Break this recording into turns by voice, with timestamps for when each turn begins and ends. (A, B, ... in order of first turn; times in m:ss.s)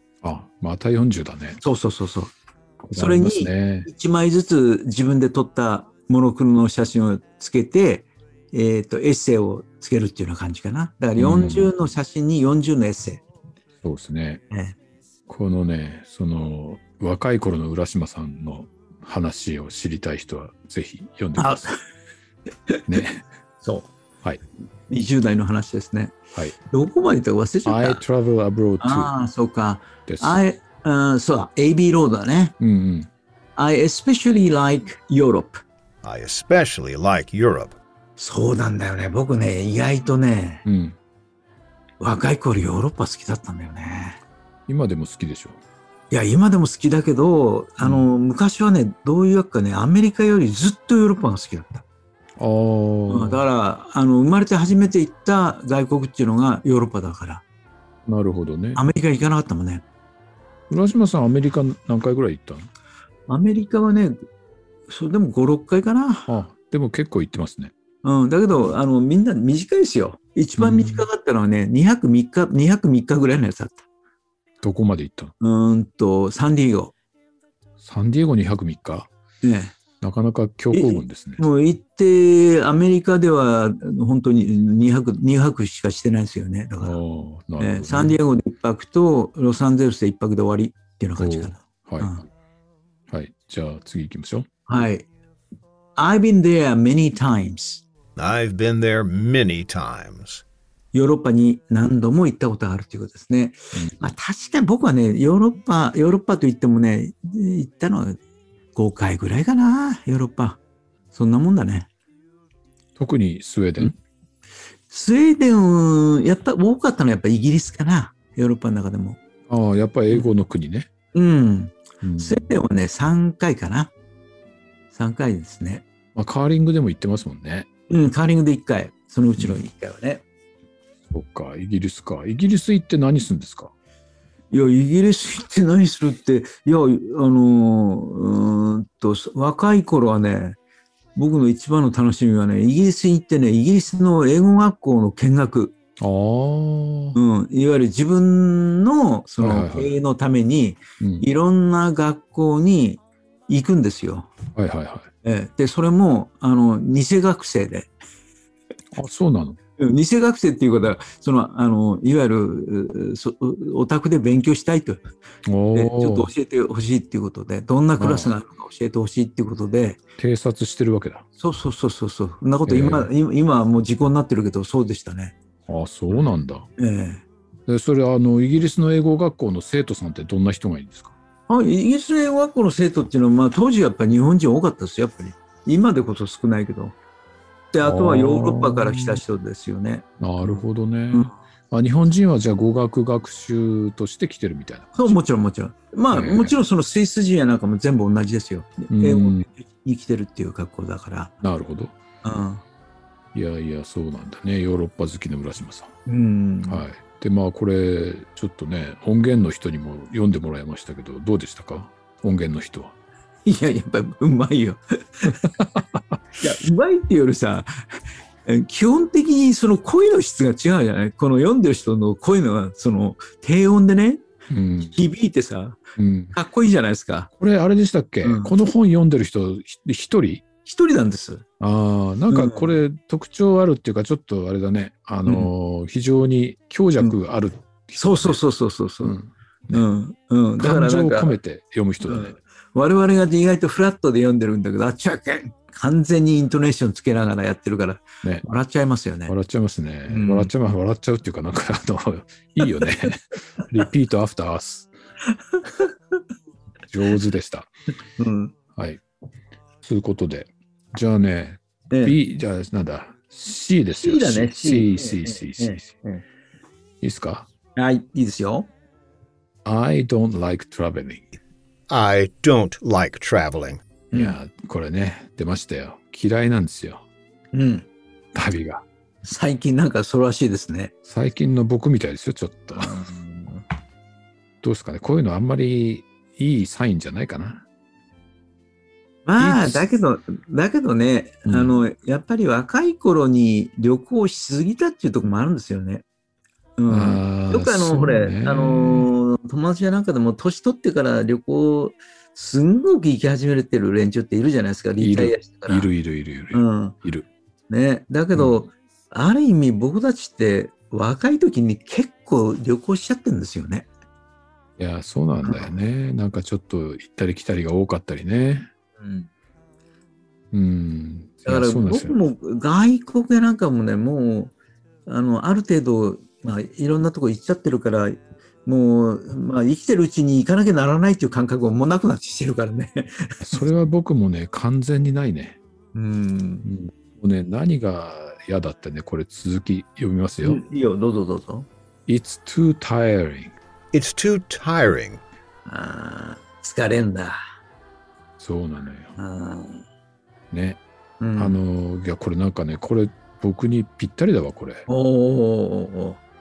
0:00.2-0:01.6 A
0:01.6-0:02.3 B
0:02.8-0:03.9 A
0:02.9-0:13.2 B
0:11.2-0:11.7 A
0:13.8-0:14.4 A
0:14.5-0:14.8 B
0:15.3-0:21.7 A
0:21.4-0:21.8 B
0:22.9-0:23.2 A
0:23.6-0:23.9 B
0:24.9-0:28.0 B
0:27.6-0:29.1 A
0:28.8-0:32.6 B
0:30.1-0:30.4 A
0:32.6-0:33.1 A
0:33.6-0:35.6 B
0:36.0-0:37.8 C
0:38.2-0:40.6 B
0:40.6-0:41.0 A
0:42.0-0:44.2 B
0:44.7-0:45.6 A
0:46.1-0:51.8 B
0:47.8-0:48.1 A
0:52.4-0:53.4 A
0:53.1-0:57.4 B
0:58.0-0:58.9 A
0:58.8-0:59.8 B
1:00.7-1:02.7 A
1:03.3-1:04.3 B
1:04.9-1:06.3 B
1:06.3-1:07.7 A
1:08.0-1:13.8 B
1:10.6-1:11.1 A
1:14.6-1:15.3 A
1:15.4-1:16.9 B
1:17.8-1:19.1 A
1:19.4-1:19.8 B
1:20.0-1:21.4 A
1:20.7-1:27.0 B
1:26.8-1:28.2 A
1:27.6-1:32.2 B
1:31.2-1:32.2 A
1:33.1-1:34.5 A
1:34.7-1:35.1 B
1:36.0-1:37.8 B
1:38.2-1:40.4 C
1:40.9-1:48.2 B
1:48.8-1:50.6 B
1:51.1-1:51.9 B
1:53.0-1:54.0 A
1:54.9-1:59.2 B
1:59.5-2:00.9 A
2:01.1-2:03.9 B
2:02.0-2:02.5 A
2:04.9-2:05.8 B
2:06.2-2:07.7 A
2:07.9-2:10.2 B
2:11.1-2:13.7 A
2:14.5-2:20.6 B
2:21.2-2:25.8 B
2:26.0-2:27.2 A
2:27.2-2:34.3 B
2:29.4-2:29.9 A
2:31.0-2:31.2 A
2:34.6-2:35.1 A
2:35.2-2:37.9 B
2:38.9-2:39.6 A
2:39.8-2:45.0 B
2:45.5-2:46.3 A
2:45.7-2:50.0 B
2:48.0-2:48.3 A
2:50.2-2:51.2 A
2:51.4-2:55.4 B
2:52.7-2:53.1 A
2:55.7-2:56.7 A
2:56.8-2:57.2 B
2:57.7-3:01.2 A
3:01.5-3:07.0 B
3:07.7-3:11.3 B
3:07.8-3:09.2 A
3:10.2-3:15.2 A
3:15.0-3:21.4 B
3:16.1-3:16.6 A
3:18.9-3:19.5 A
3:21.4-3:22.0 A
3:22.2-3:22.6 B
3:23.3-3:25.9 A
3:26.1-3:26.8 B
3:26.7-3:33.0 A
3:33.4-3:35.5 B
3:35.2-3:36.2 A
3:36.4-3:37.8 B
3:38.4-3:44.2 B
3:44.5-3:45.0 A
3:44.8-3:45.8 B
3:46.0-3:46.4 A
3:46.3-3:47.3 B
3:47.4-3:50.4 A
3:48.2-3:48.5 B
3:50.6-3:51.4 B
3:51.6-3:58.4 A
3:52.3-3:52.7 B
3:55.2-3:55.5 B
3:58.0-3:59.2 B
3:59.0-3:59.8 A
3:59.7-4:01.4 B
4:00.6-4:02.4 A
4:02.0-4:09.3 B
4:09.3-4:14.9 A
4:10.1-4:10.5 B
4:15.6-4:15.9 B
4:16.9-4:17.7 A
4:18.2-4:18.6 B
4:18.8-4:19.0 A
4:19.8-4:26.0 A
4:21.9-4:22.2 B
4:24.0-4:26.2 B
4:27.0-4:27.5 A
4:27.8-4:28.7 B
4:29.6-4:31.3 A
4:31.9-4:33.8 C
4:34.1-4:34.4 B
4:34.1-4:37.0 A
4:37.5-4:37.9 B
4:38.3-4:38.8 A
4:39.2-4:40.9 B
4:41.0-4:43.0 A
4:42.8-4:43.6 B
4:44.6-4:47.6 A
4:49.3-4:56.0 B
4:49.4-4:49.9 A
4:51.5-4:51.8 A
4:56.8-5:05.9 B
4:56.9-4:59.1 A
5:05.0-5:07.3 A
5:06.5-5:07.0 B
5:07.7-5:13.9 B
5:14.8-5:18.7 A
5:15.4-5:15.7 B
5:19.0-5:19.3 B
5:20.5-5:22.2 A
5:21.4-5:24.5 B
5:25.1-5:33.6 B
5:33.4-5:35.6 A
5:36.0-5:36.7 B
5:36.6-5:40.6 A
5:40.4-5:41.7 B
5:42.1-5:43.5 A
5:43.9-5:45.2 C
5:45.7-5:47.4 B
5:48.4-5:49.2 A
5:49.2-5:49.8 B
5:50.5-5:50.8 A
5:51.2-5:51.6 B
5:51.4-5:54.9 A
5:54.9-5:56.2 B